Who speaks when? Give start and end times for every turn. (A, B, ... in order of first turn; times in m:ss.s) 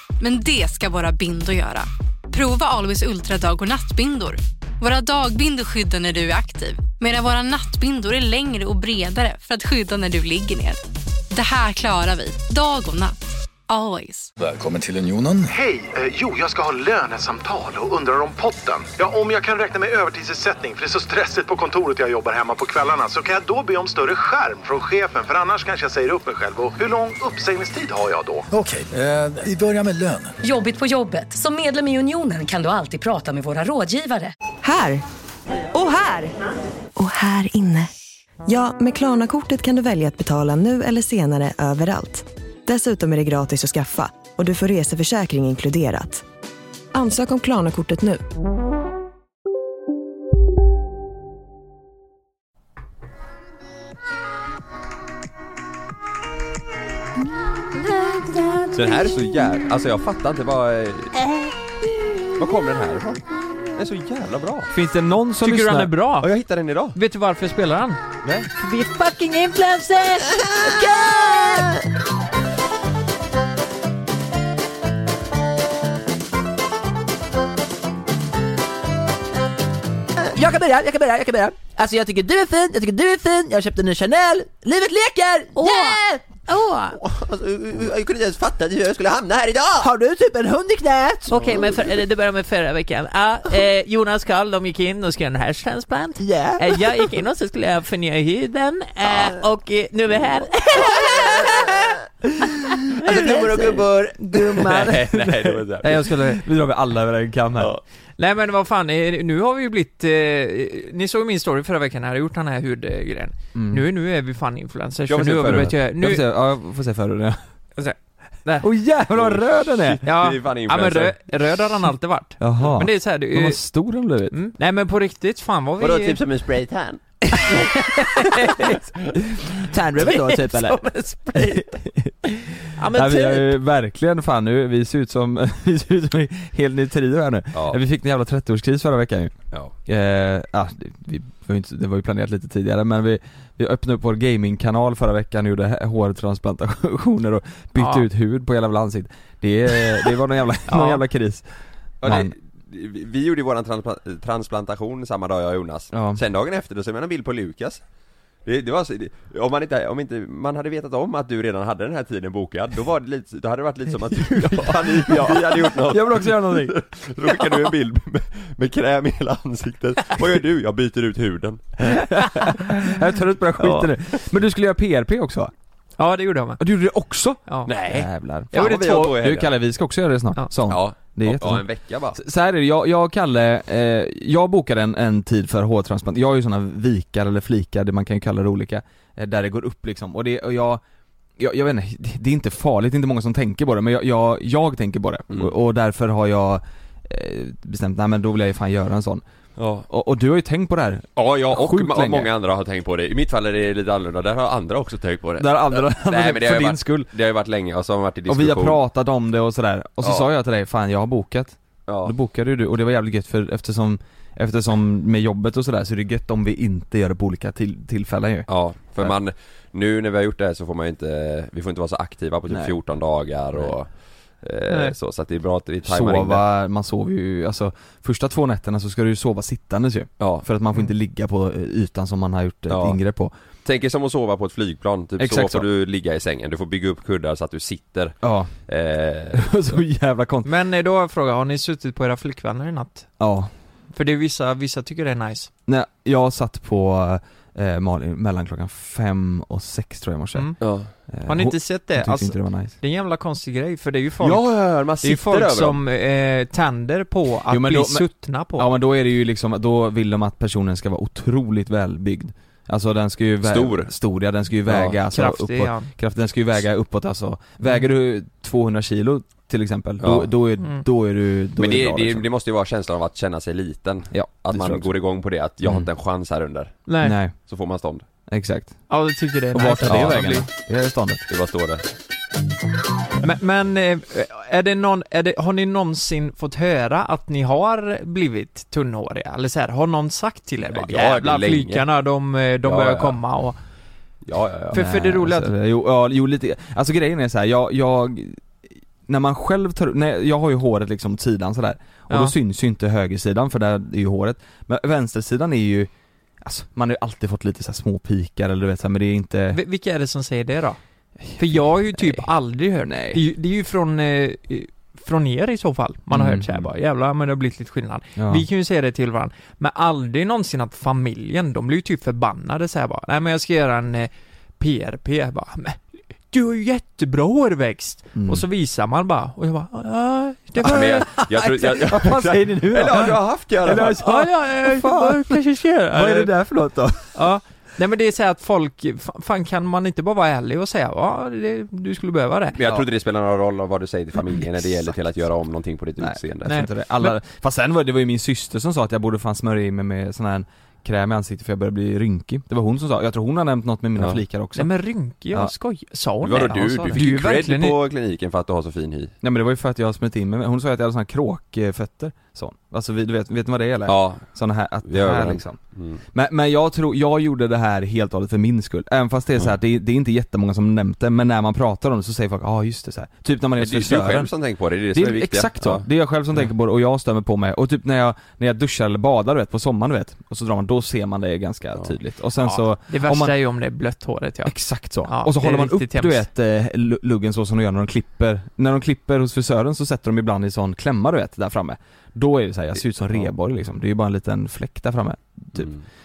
0:00.2-0:13.2 A
0:13.7-0:14.3 A
0:14.4-0:15.5 B
0:15.5-0:28.5 C
0:28.5-0:30.4 B
0:30.4-0:34.3 D
0:34.6-0:35.0 E
0:35.7-0:36.3 E
0:37.0-0:37.9 E
0:38.5-0:46.2 E
0:46.9-0:48.2 E
0:58.7-1:01.1 F
1:02.4-1:04.7 F
1:04.7-1:05.9 G
1:05.4-1:06.3 H
1:06.2-1:07.0 F
1:07.0-1:08.0 H
1:08.2-1:08.5 G
1:08.6-1:10.4 H
1:20.4-1:26.4 I
1:25.6-1:26.0 H
1:26.6-1:26.9 H
1:26.9-1:29.8 F
1:29.8-1:31.3 I
1:31.3-1:41.6 H
1:31.4-1:31.7 F
1:43.0-1:44.8 H
1:43.1-1:43.8 F
1:43.1-1:43.7 G
1:44.5-1:46.0 F
1:44.7-1:47.7 G
1:45.8-1:46.4 H
1:48.2-1:56.2 H
1:53.6-1:53.8 G
1:55.1-1:55.8 F
1:55.4-1:57.4 G
1:57.8-1:58.6 H
1:58.6-2:00.0 G
1:59.1-2:01.2 F
2:00.0-2:03.6 H
2:02.4-2:04.4 G
2:04.3-2:06.2 H
2:05.8-2:07.8 F
2:08.0-2:08.7 H
2:09.2-2:12.3 G
2:10.1-2:11.4 H
2:12.8-2:13.5 H
2:12.9-2:19.4 G
2:17.5-2:17.8 F
2:19.9-2:31.5 G
2:27.8-2:28.1 H
2:30.7-2:31.0 H
2:32.0-2:37.8 F
2:32.0-2:32.3 G
2:35.9-2:36.2 G
2:38.4-2:52.0 F
2:44.1-2:46.8 G
2:51.9-2:55.5 G
2:56.0-2:56.6 H
2:56.6-3:10.8 G
2:57.7-2:59.5 F
2:58.5-2:59.1 H
3:00.7-3:02.2 F
3:11.4-3:19.2 G
3:19.6-3:19.9 F
3:19.9-3:22.3 G
3:21.2-3:28.8 F
3:25.4-3:27.1 G
3:28.3-3:39.2 G
3:30.0-3:30.3 F
3:31.9-3:32.1 F
3:38.5-3:43.9 F
3:42.5-3:42.7 G
3:44.4-3:46.4 F
3:44.7-3:44.9 H
3:45.8-3:53.3 G
3:50.2-3:50.4 F
3:52.7-3:53.0 F
3:53.6-3:58.2 F
3:55.2-3:55.6 G
3:58.2-3:58.5 G
3:58.7-3:59.8 F
3:59.3-4:00.5 G
4:00.4-4:03.1 H
4:03.2-4:03.5 G
4:03.9-4:05.5 H
4:05.7-4:10.6 G
4:10.4-4:10.6 H
4:10.6-4:10.9 F
4:11.1-4:12.8 G
4:11.3-4:14.4 H
4:14.2-4:15.8 F
4:15.0-4:18.7 H
4:17.5-4:32.3 G
4:23.4-4:23.9 F
4:25.1-4:25.9 H
4:30.0-4:30.3 F
4:31.6-4:36.9 F
4:34.1-4:34.9 G
4:35.6-4:35.9 G
4:36.9-4:37.2 H
4:37.0-4:37.4 G
4:37.5-4:38.0 F
4:38.3-4:38.8 G
4:38.9-4:40.5 H
4:39.5-4:41.2 G
4:39.9-4:40.3 F
4:41.3-4:41.9 F
4:43.2-4:53.6 H
4:50.7-4:51.8 F
4:52.6-4:53.2 F
4:54.3-4:54.8 F
4:54.7-4:58.4 G
4:54.7-4:55.5 H
4:59.1-5:05.9 G
5:06.4-5:09.6 G
5:09.5-5:10.8 H
5:11.2-5:12.3 G
5:11.4-5:25.8 H
5:12.8-5:13.2 G
5:16.1-5:16.6 G
5:18.2-5:18.4 G
5:26.3-5:31.1 H
5:28.2-5:28.4 G
5:30.6-5:37.2 G
5:30.6-5:34.0 F
5:34.0-5:36.3 H
5:37.1-5:42.6 H
5:42.6-5:46.7 F
5:46.0-5:54.7 G
5:46.5-5:47.2 H
5:54.6-5:57.8 H
5:56.2-5:59.1 F
5:56.4-5:57.0 G
5:59.2-6:05.6 G
6:03.9-6:04.2 F
6:04.9-6:06.0 F
6:06.1-6:14.3 G
6:13.6-6:15.8 F
6:14.9-6:23.4 G
6:22.4-6:24.5 H
6:24.4-6:35.7 G
6:25.1-6:26.3 H
6:35.6-6:35.8 F